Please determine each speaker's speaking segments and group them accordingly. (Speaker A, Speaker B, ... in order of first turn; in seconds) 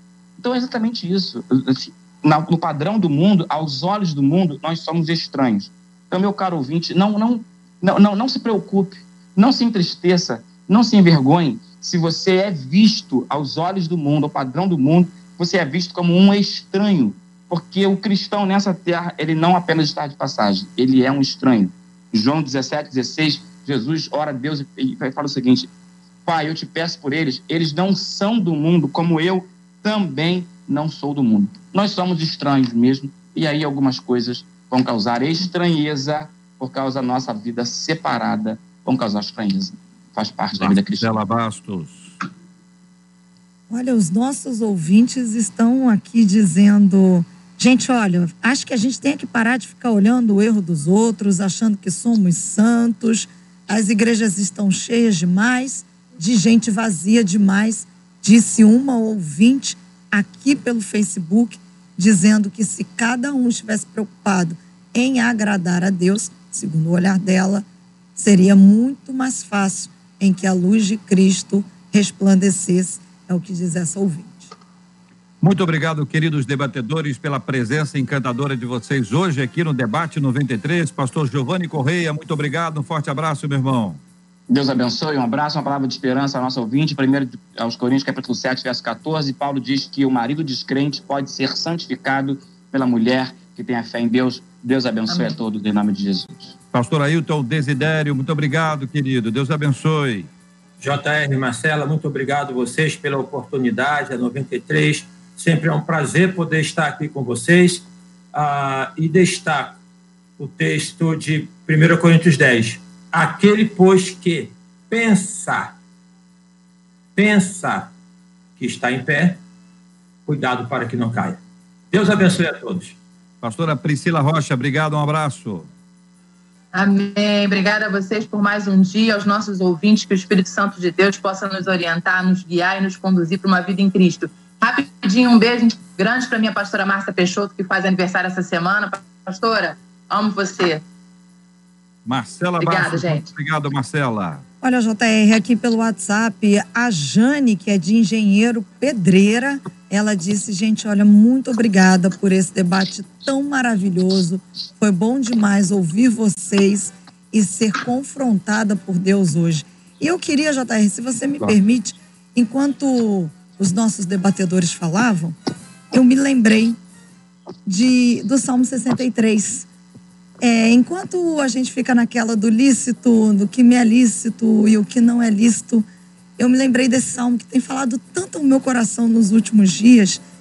Speaker A: 0.4-25.7, 26.2-41.2, 84.5-96.5
Speaker B: 40.5-42.1, 75.4-84.0, 96.7-100.3, 123.4-125.7, 142.1-144.4
Speaker C: 43.7-67.7, 68.2-74.5, 144.6-165.3, 165.9-166.8, 167.7-169.7, 170.4-175.9, 176.4-180.2
Speaker D: 95.1-95.4, 126.7-140.8, 142.6-143.3
Speaker E: 100.8-109.8, 110.4-115.8, 117.2-117.9, 118.6-119.4, 120.3-121.4, 121.9-123.0